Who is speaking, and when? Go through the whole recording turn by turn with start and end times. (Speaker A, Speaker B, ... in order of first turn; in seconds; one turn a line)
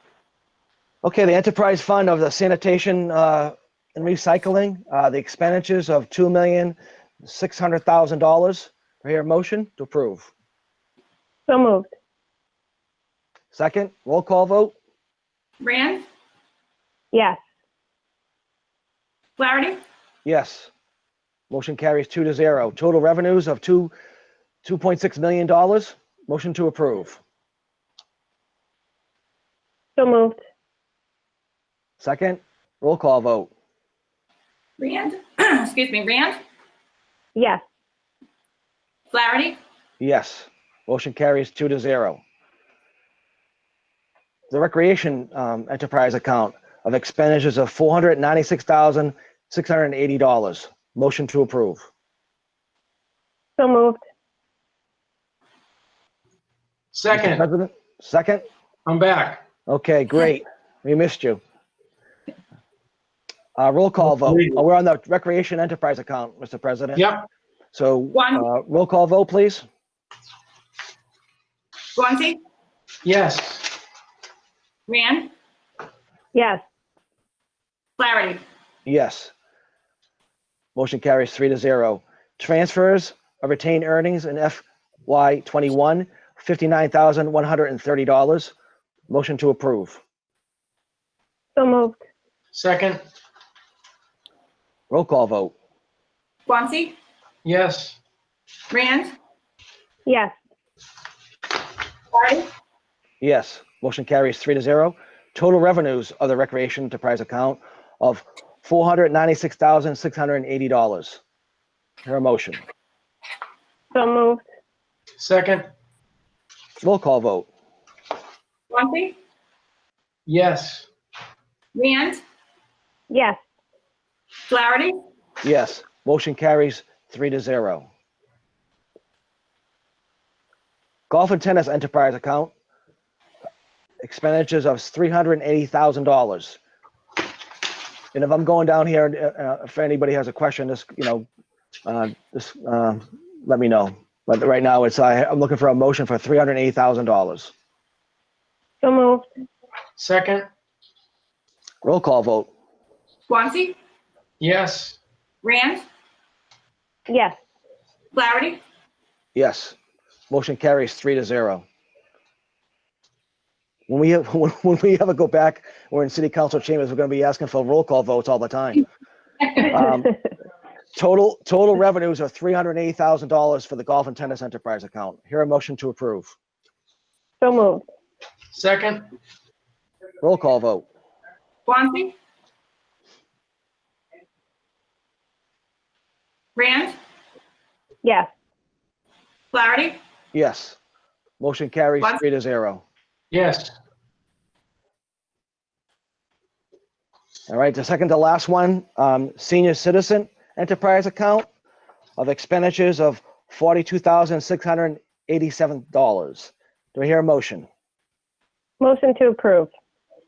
Speaker A: 1.0-10.3
Speaker B: 11.5-11.9
Speaker A: 13.5-14.7
Speaker C: 15.6-16.0
Speaker C: 19.4-19.8
Speaker A: 20.2-20.7
Speaker A: 21.5-23.9
Speaker A: 24.6-27.2
Speaker B: 30.0-30.3
Speaker A: 32.0-33.5
Speaker C: 34.8-36.4
Speaker C: 39.1-39.6
Speaker A: 40.0-42.2
Speaker A: 44.5-51.9
Speaker B: 53.6-53.9
Speaker D: 56.9-57.4
Speaker A: 57.1-58.4
Speaker D: 58.8-59.4
Speaker A: 59.7-61.4
Speaker A: 63.5-67.0
Speaker D: 64.2-64.6
Speaker D: 66.9-67.3
Speaker A: 67.7-69.6
Speaker C: 68.1-68.5
Speaker C: 71.9-72.4
Speaker D: 73.0-73.8
Speaker C: 74.9-75.3
Speaker C: 78.0-78.4
Speaker A: 78.8-79.3
Speaker A: 80.8-88.5
Speaker A: 89.1-90.0
Speaker B: 91.6-91.9
Speaker D: 92.5-93.0
Speaker A: 94.9-95.5
Speaker C: 96.5-96.9
Speaker D: 97.4-98.0
Speaker C: 98.7-99.1
Speaker C: 102.1-102.5
Speaker A: 103.2-111.2
Speaker A: 112.0-112.6
Speaker B: 114.0-114.3
Speaker D: 115.2-115.7
Speaker A: 116.8-117.5
Speaker C: 118.7-119.2
Speaker D: 120.3-120.9
Speaker C: 121.7-122.2
Speaker C: 124.5-125.0
Speaker A: 125.4-127.9
Speaker A: 131.1-132.5
Speaker A: 134.0-136.6
Speaker A: 138.1-141.2
Speaker A: 141.8-147.5
Speaker B: 148.8-149.2
Speaker D: 150.0-150.5
Speaker A: 151.8-152.5
Speaker C: 153.3-153.8
Speaker D: 154.4-155.0
Speaker C: 155.4-155.8
Speaker C: 158.1-158.6
Speaker A: 159.3-159.8
Speaker A: 160.3-161.6
Speaker A: 163.9-168.8
Speaker A: 169.5-170.2
Speaker A: 170.9-176.3
Speaker B: 177.4-177.8
Speaker D: 178.5-179.1
Speaker A: 180.2-180.8
Speaker C: 181.7-182.1
Speaker C: 186.6-186.9
Speaker C: 189.5-190.0
Speaker A: 190.3-190.8
Speaker A: 191.4-192.8
Speaker D: 193.3-193.8
Speaker A: 197.5-201.5
Speaker A: 202.2-207.7
Speaker B: 208.8-209.7